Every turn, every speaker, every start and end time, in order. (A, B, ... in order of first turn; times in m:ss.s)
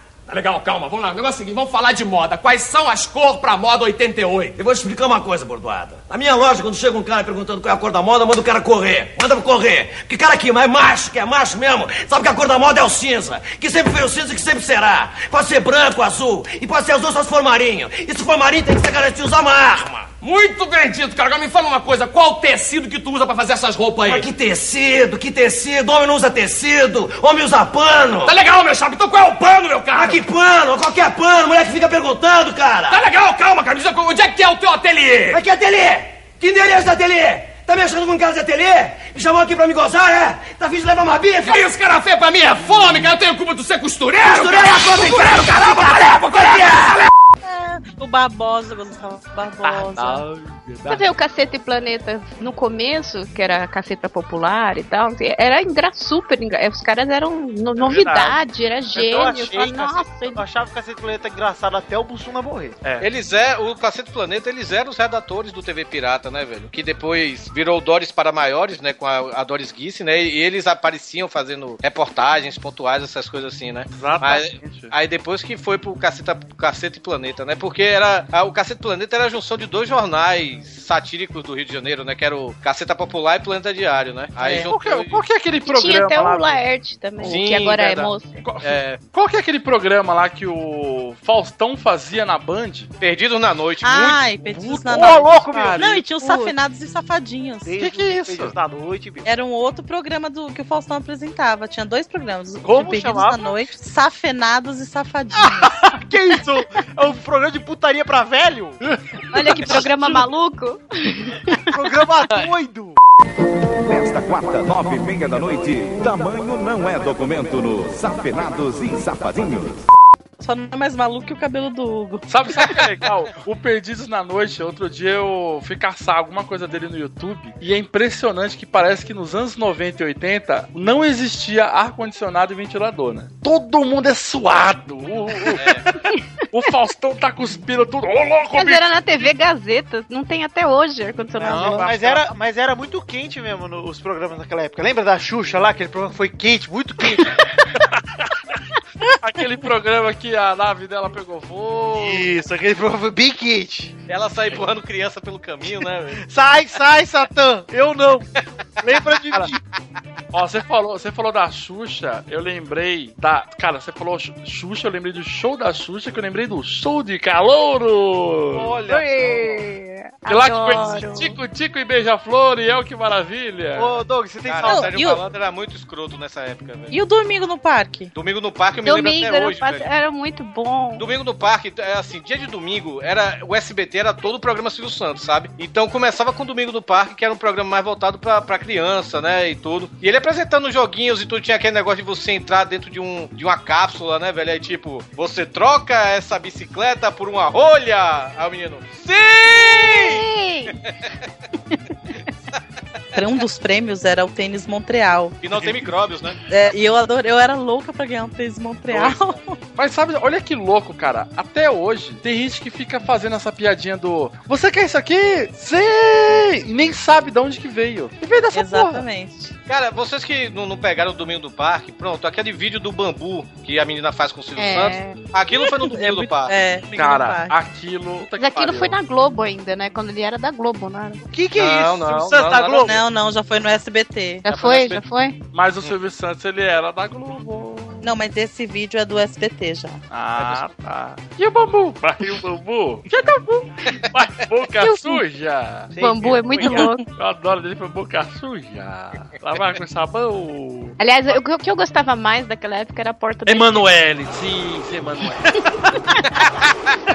0:00.3-0:04.6 A
0:04.6-0:20.1 B
0:20.2-0:24.3 A
0:24.1-0:28.3 B
0:28.2-0:30.2 A
0:29.9-0:33.0 B
0:32.9-0:35.4 A
0:35.3-0:41.6 B
0:41.4-0:47.1 A
0:44.2-0:47.0 B
0:47.4-0:50.2 C
0:49.6-0:51.1 D
0:50.9-1:00.4 E
0:57.8-0:58.4 D
0:59.0-1:02.9 F
1:03.0-1:25.2 G
1:13.9-1:14.9 D
1:24.4-1:24.7 C
1:24.7-1:26.6 D
1:25.6-1:28.4 E
1:27.2-1:28.1 G
1:28.4-1:32.9 D
1:28.6-1:29.0 G
1:33.0-1:34.3 G
1:33.8-1:37.8 C
1:34.6-1:36.0 F
1:34.9-1:35.2 D
1:36.2-1:36.5 E
1:37.6-1:39.3 F
1:37.8-1:38.5 D
1:39.2-1:45.8 C
1:42.6-1:43.5 F
1:45.4-1:48.8 F
1:48.8-1:50.1 D
1:49.3-1:51.6 E
1:51.7-1:53.0 F
1:53.9-1:59.8 H
2:00.4-2:02.3 C
2:02.3-2:15.8 D
2:15.5-2:15.9 G
2:16.5-2:19.2 D
2:18.6-2:21.9 E
2:21.4-2:27.4 F
2:21.4-2:22.3 D
2:29.2-2:32.3 D
2:32.0-2:33.9 F
2:34.1-2:36.2 G
2:36.2-2:38.3 F
2:38.8-2:39.6 F
2:40.3-2:48.8 D
2:48.5-2:49.2 G
2:48.9-2:49.6 F
2:48.9-2:51.4 E
2:50.3-2:54.0 D
2:53.8-2:54.9 F
2:54.5-2:56.9 G
2:54.7-2:55.2 C
2:56.9-2:58.1 C
2:58.1-2:59.9 G
2:58.8-3:01.1 E
3:01.0-3:20.2 G
3:19.6-3:20.7 E
3:23.1-3:25.4 C
3:25.4-3:26.4 G
3:26.5-3:29.6 C
3:29.8-3:39.1 D
3:38.5-3:39.6 C
3:39.7-3:46.5 G
3:44.6-3:45.3 E
3:45.6-3:47.5 C
3:47.0-3:49.0 D
3:48.4-3:51.2 E
3:51.3-3:53.0 F
3:51.6-3:53.0 G
3:52.8-3:54.5 C
3:54.4-3:55.4 E
3:54.5-3:55.0 G
3:55.5-3:58.1 D
3:58.0-4:00.0 C
4:00.1-4:05.9 D
4:04.8-4:05.2 E
4:05.9-4:06.9 F
4:06.0-4:07.0 E
4:06.6-4:11.0 D
4:11.0-4:13.9 E
4:13.5-4:15.6 D